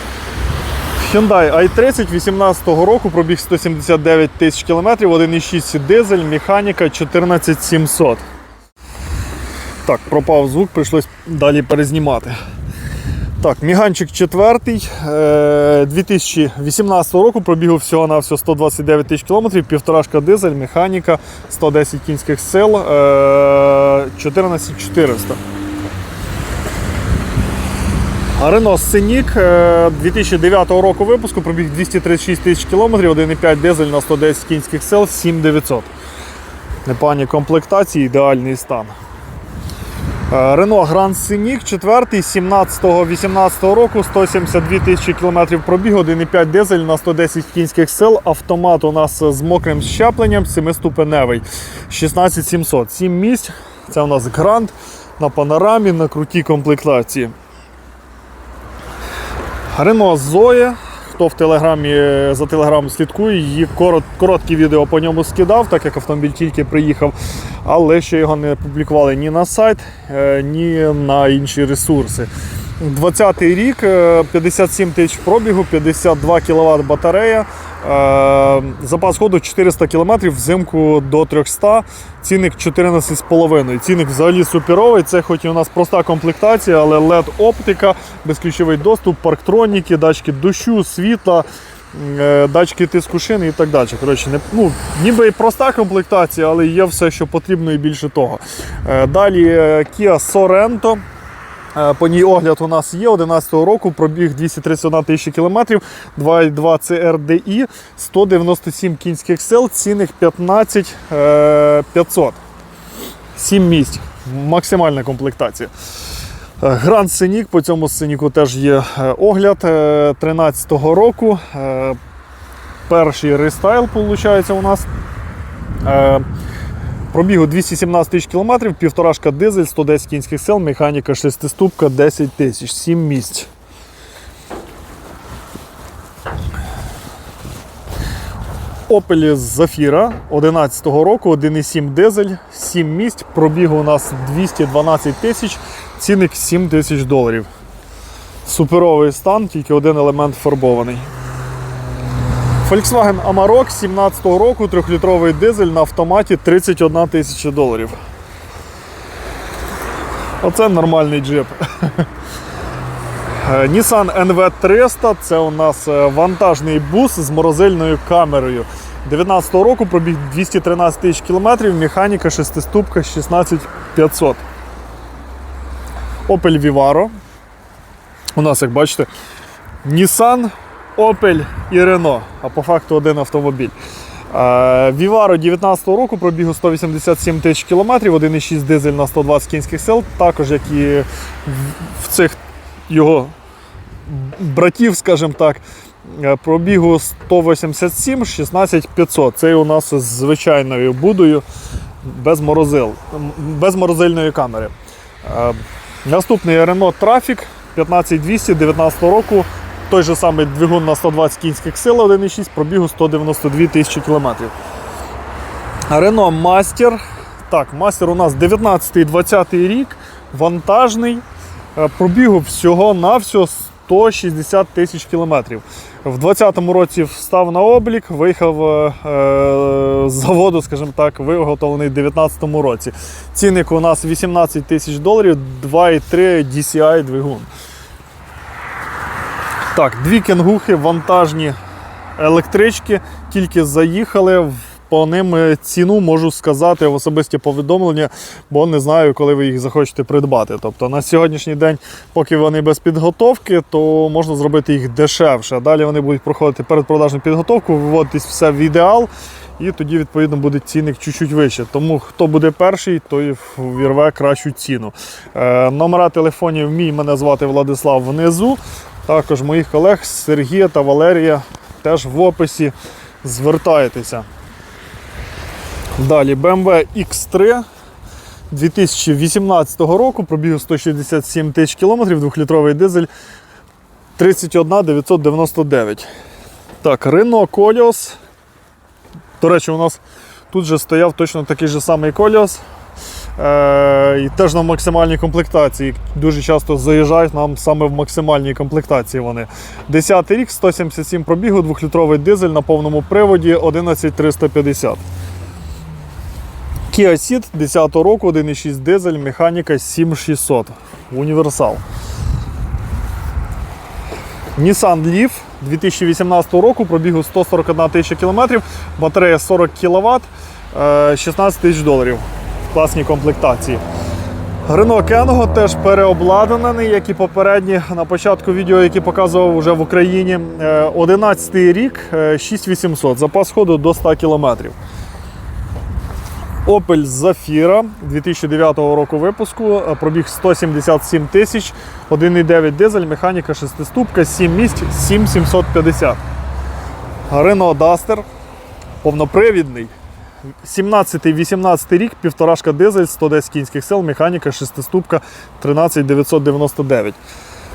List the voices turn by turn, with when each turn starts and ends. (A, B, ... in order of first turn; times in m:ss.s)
0:01.0-0:08.2 A
0:09.8-0:12.4 A
0:13.4-0:25.4 A
0:28.4-0:35.9 A
0:36.8-0:38.9 A
0:40.3-0:57.3 A
0:59.7-1:41.0 A
1:41.7-1:52.4 A
1:53.3-1:55.7 A
1:56.6-2:02.0 A
2:02.9-2:04.9 A
2:05.8-2:06.2 A
2:07.1-2:13.5 A
2:18.9-2:27.5 A
2:28.4-2:31.1 A
2:32.6-2:38.0 A
2:40.4-2:42.1 A
2:43.4-2:54.4 A
2:56.3-2:57.1 A
2:58.4-2:59.1 A
2:59.8-3:03.7 A
3:04.3-3:13.3 A
3:14.0-3:21.4 A
3:22.0-3:24.7 A
3:25.2-3:34.5 A
3:35.9-3:41.2 A
3:41.8-3:57.5 A
3:59.7-4:01.6 A
4:02.2-4:34.2 A
4:36.0-4:37.6 A
4:38.5-4:43.1 A
4:44.2-4:46.1 A
4:46.8-4:48.2 A
4:49.4-4:52.6 A
4:53.4-5:05.0 A
5:06.9-5:11.8 A
5:14.6-5:23.8 A
5:24.7-5:34.8 A
5:36.6-5:46.2 A
5:47.3-5:48.2 A
5:49.0-5:49.9 A
5:50.6-5:57.2 A